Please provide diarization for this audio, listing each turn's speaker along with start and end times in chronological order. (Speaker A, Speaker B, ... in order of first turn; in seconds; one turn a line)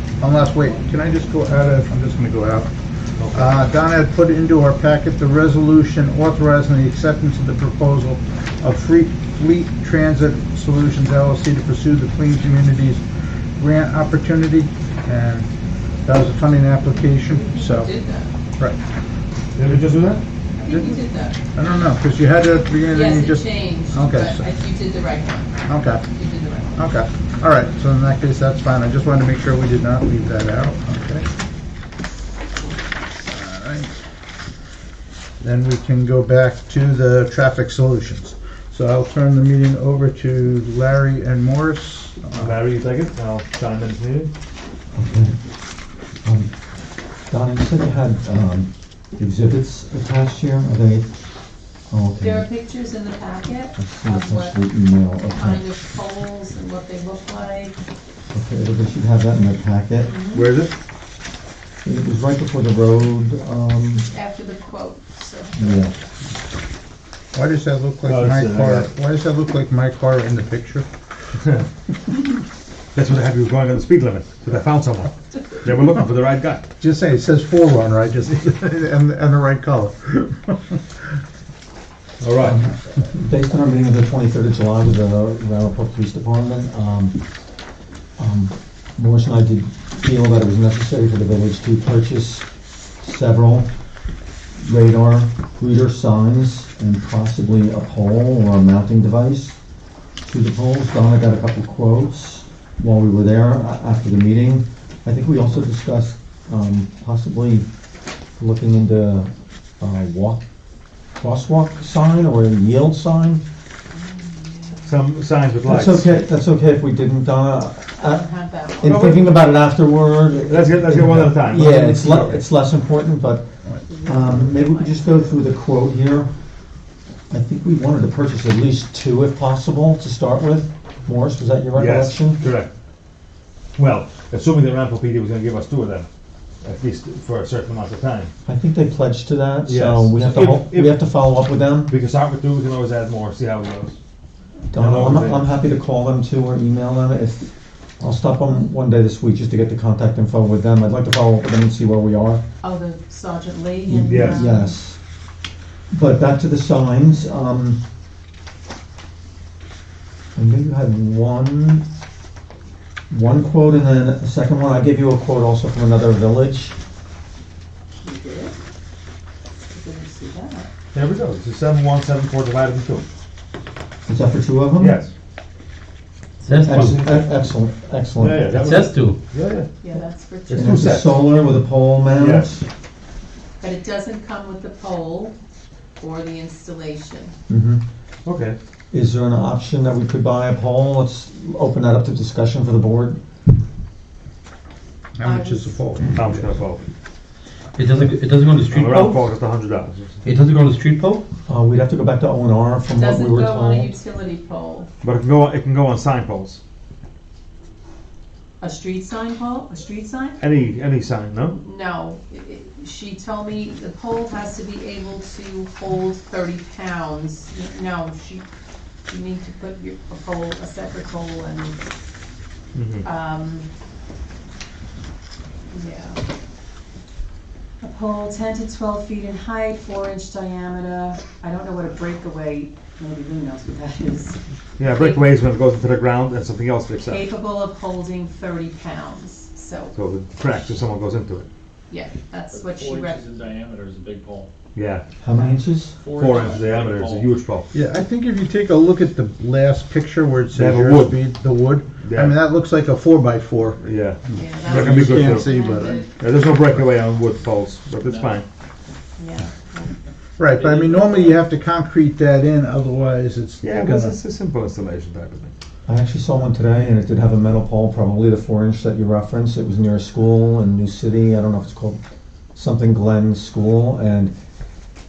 Speaker A: 0.2-2.7
Speaker B: 3.2-3.7
Speaker A: 3.3-13.0
Speaker A: 13.6-15.5
Speaker A: 16.0-17.9
Speaker C: 17.2-18.3
Speaker B: 19.5-20.2
Speaker C: 20.6-21.4
Speaker A: 20.7-21.0
Speaker A: 21.5-24.5
Speaker C: 22.9-26.8
Speaker A: 25.6-26.0
Speaker A: 26.8-31.3
Speaker A: 33.2-33.9
Speaker A: 35.4-42.6
Speaker B: 42.3-44.3
Speaker D: 44.9-45.4
Speaker D: 46.2-46.5
Speaker D: 47.3-51.1
Speaker D: 51.9-52.5
Speaker C: 52.2-54.6
Speaker D: 53.8-55.6
Speaker C: 55.3-57.8
Speaker D: 58.3-60.1
Speaker C: 60.0-60.5
Speaker B: 60.3-60.7
Speaker D: 61.8-64.1
Speaker C: 64.0-65.9
Speaker D: 65.6-65.9
Speaker A: 67.3-70.8
Speaker B: 68.0-68.9
Speaker B: 72.9-76.6
Speaker A: 76.8-80.8
Speaker B: 82.2-82.6
Speaker D: 82.4-87.2
Speaker D: 88.2-92.5
Speaker D: 93.0-93.7
Speaker D: 94.6-99.6
Speaker D: 100.2-107.7
Speaker D: 108.4-110.4
Speaker D: 111.2-113.4
Speaker C: 113.9-115.0
Speaker B: 114.8-116.2
Speaker D: 115.6-118.3
Speaker C: 118.0-118.9
Speaker D: 118.8-123.5
Speaker B: 118.8-119.3
Speaker B: 120.5-122.4
Speaker C: 123.9-125.4
Speaker D: 124.0-126.3
Speaker D: 127.3-132.5
Speaker B: 131.7-132.7
Speaker B: 133.8-136.1
Speaker B: 136.6-138.3
Speaker D: 138.4-141.9
Speaker B: 139.6-141.2
Speaker B: 141.9-144.0
Speaker D: 144.7-152.4
Speaker B: 144.7-145.4
Speaker C: 152.6-154.7
Speaker D: 153.8-155.0
Speaker B: 154.0-154.4
Speaker D: 155.9-157.8
Speaker D: 160.3-161.8
Speaker D: 163.1-166.8
Speaker C: 168.0-168.6
Speaker C: 169.7-170.7
Speaker B: 170.9-173.0
Speaker D: 174.1-175.0
Speaker B: 174.8-175.1
Speaker E: 176.4-177.1
Speaker D: 176.6-178.5
Speaker B: 176.7-177.3
Speaker B: 178.2-179.7
Speaker E: 178.4-179.2
Speaker C: 179.8-180.8
Speaker B: 180.5-181.1
Speaker D: 180.5-182.6
Speaker B: 182.1-182.5
Speaker C: 183.6-185.3
Speaker C: 186.0-187.3
Speaker D: 187.5-187.8
Speaker B: 188.2-188.6
Speaker D: 188.9-193.2
Speaker A: 195.2-196.3
Speaker C: 195.2-195.8
Speaker B: 196.1-196.8
Speaker E: 197.7-199.2
Speaker B: 198.7-200.2
Speaker E: 200.2-201.2
Speaker D: 201.5-203.9
Speaker C: 202.9-204.9
Speaker B: 205.0-206.6
Speaker C: 208.6-210.4
Speaker B: 210.4-211.6
Speaker C: 211.6-218.4
Speaker C: 219.1-221.8
Speaker B: 222.7-223.0
Speaker C: 223.0-223.7
Speaker C: 225.7-226.2
Speaker C: 227.8-235.3
Speaker B: 234.8-237.2
Speaker C: 237.0-239.9
Speaker B: 239.9-241.5
Speaker C: 241.9-243.3
Speaker F: 242.5-244.5
Speaker B: 244.7-245.0
Speaker D: 245.2-246.0
Speaker F: 245.4-247.3
Speaker B: 246.1-247.7
Speaker A: 247.7-253.8
Speaker B: 250.5-251.2
Speaker B: 252.0-252.3
Speaker B: 253.8-258.4
Speaker C: 254.3-256.1
Speaker A: 254.6-256.0
Speaker F: 258.0-258.4
Speaker C: 259.2-259.9
Speaker A: 260.4-264.1
Speaker F: 260.5-261.5
Speaker B: 263.6-265.5
Speaker D: 265.9-272.0
Speaker D: 272.5-274.3